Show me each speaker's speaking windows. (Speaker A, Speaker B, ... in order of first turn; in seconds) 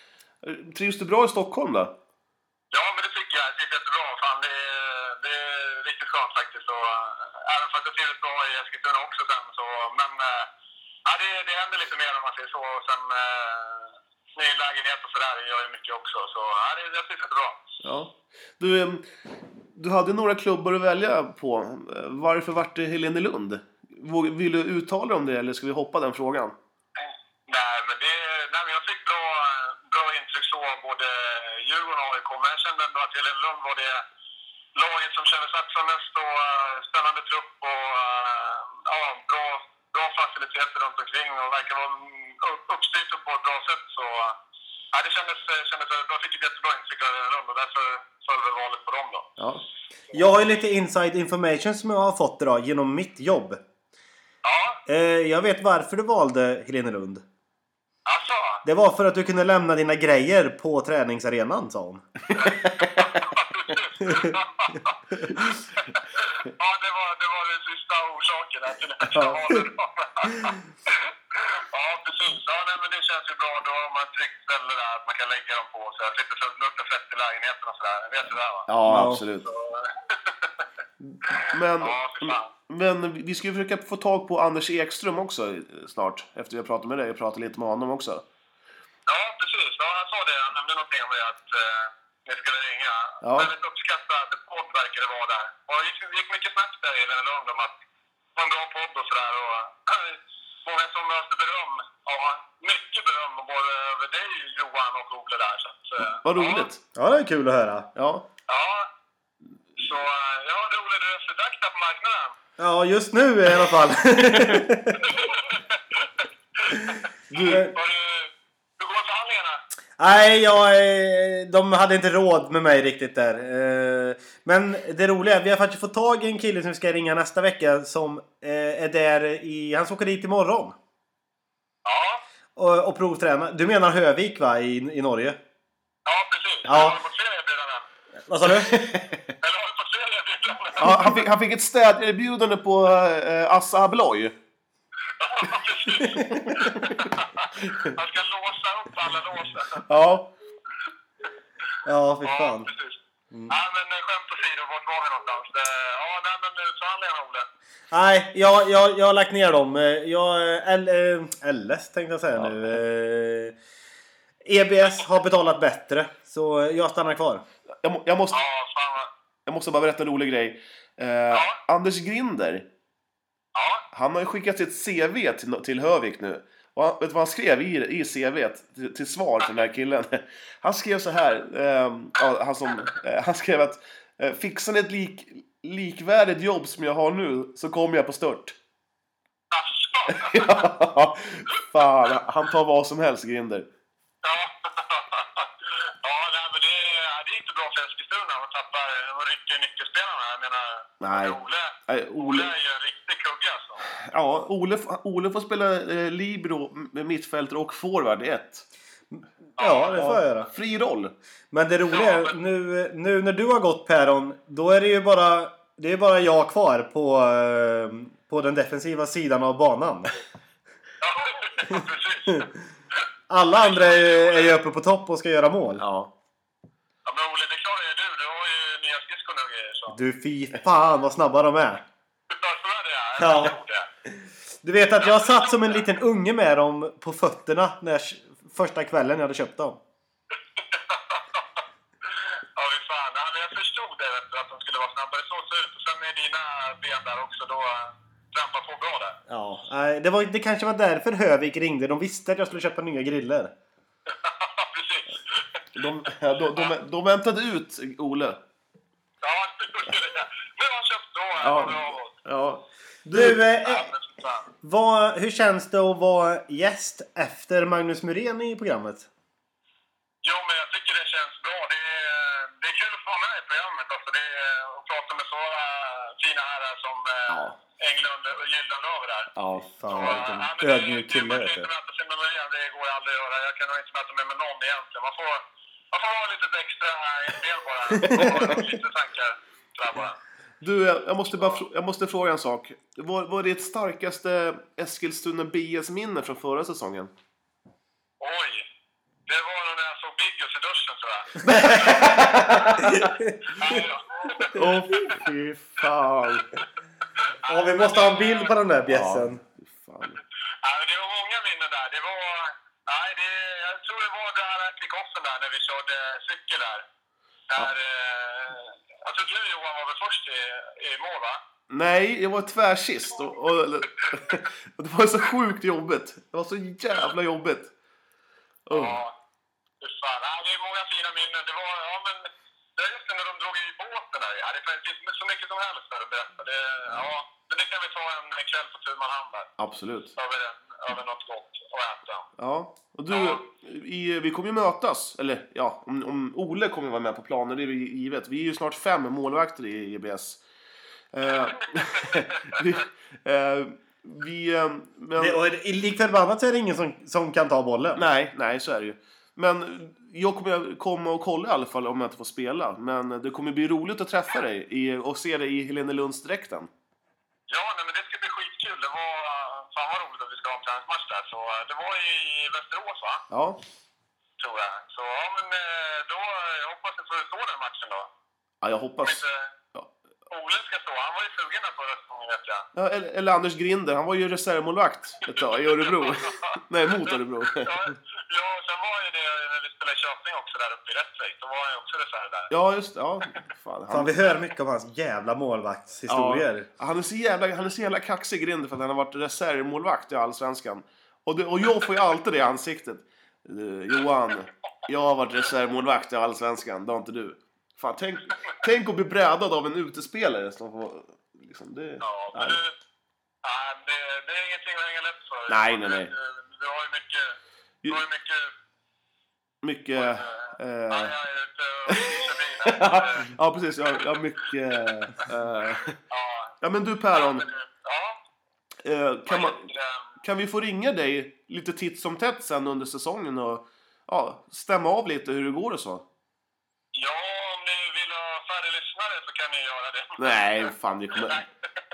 Speaker A: 0.4-1.9, 17.8-19.1, 19.7-26.6, 62.3-63.1, 69.1-69.4, 78.7-79.5, 81.0-88.2, 93.2-93.5, 106.2-106.8, 108.0-108.2, 114.3-114.6, 117.3-117.7, 140.8-144.3, 146.5-146.9, 149.9-150.3, 167.8-168.4, 169.5-172.7, 173.9-188.6, 190.1-193.7, 201.0-201.4, 201.9-202.5, 204.0-208.7, 209.9-211.1, 225.8-226.1, 255.8-258.4, 261.4-263.4, 277.3-277.6, 279.4-280.1, 288.0-288.6, 290.6-297.1, 301.4-303.0, 304.5-306.5, 308.9-310.2, 321.7-327.7, 328.7-329.0, 339.6-340.1, 342.4-350.4, 351.1-355.4, 358.0-366.7, 373.3-373.6, 378.6-379.9, 382.8-387.8, 392.5-394.1, 396.1-412.6, 415.5-416.1, 419.6-421.1, 421.9-426.0, 426.6-427.5, 428.8-429.7, 430.2-436.1, 440.2-441.4
Speaker B: 2.7-10.5, 11.1-17.6, 27.5-34.0, 34.8-44.4, 44.9-49.3, 54.4-54.8, 58.1-58.6, 62.4-64.9, 66.2-78.7, 79.5-80.5, 81.4-82.5, 89.1-97.7, 98.4-106.7, 108.5-108.9, 109.8-112.4, 115.0-115.8, 116.6-119.6, 131.8-132.2, 136.1-137.9, 139.4-141.1, 145.2-149.8, 152.2-153.0, 153.5-157.5, 168.3-169.1, 171.3-171.6, 173.6-173.8, 189.5-190.7, 194.2-195.5, 196.0-203.8, 209.6-210.0, 211.9-212.3, 221.0-222.5, 223.7-224.5, 227.1-229.9, 232.3-233.9, 235.0-235.8, 240.6-241.2, 242.6-249.2, 254.1-255.4, 259.2-262.2, 263.6-264.4, 270.2-279.3, 279.9-290.2, 291.3-291.6, 298.2-298.6, 299.3-302.0, 303.6-304.6, 307.4-308.5, 310.6-316.8, 317.5-321.4, 328.7-329.1, 329.8-339.5, 340.2-342.3, 343.1-343.4, 367.5-373.2, 374.4-378.1, 379.0-379.5, 380.3-382.7, 385.4-386.5, 387.1-392.5, 412.0-412.7, 413.4-417.4, 417.9-418.5, 420.0-423.3, 426.1-426.6, 427.1-428.2, 429.3-430.1, 436.9-440.7
Speaker C: 50.1-53.6, 54.9-57.2, 58.6-62.1, 64.0-64.3, 78.8-79.2, 107.0-107.9, 112.6-115.0, 117.4-117.7, 120.0-130.8, 132.6-135.4, 136.7-137.0, 138.3-138.9, 146.0-146.4, 151.8-152.7, 157.9-163.6, 164.4-167.4, 209.1-210.5, 211.5-220.2, 223.3-225.8, 229.9-231.8, 233.2-233.6, 234.6-239.8, 249.3-253.5, 263.1-263.9, 264.6-269.1, 279.6-281.7, 288.1-288.5, 301.5-303.8, 307.5-309.4, 355.2-358.1, 393.9-396.7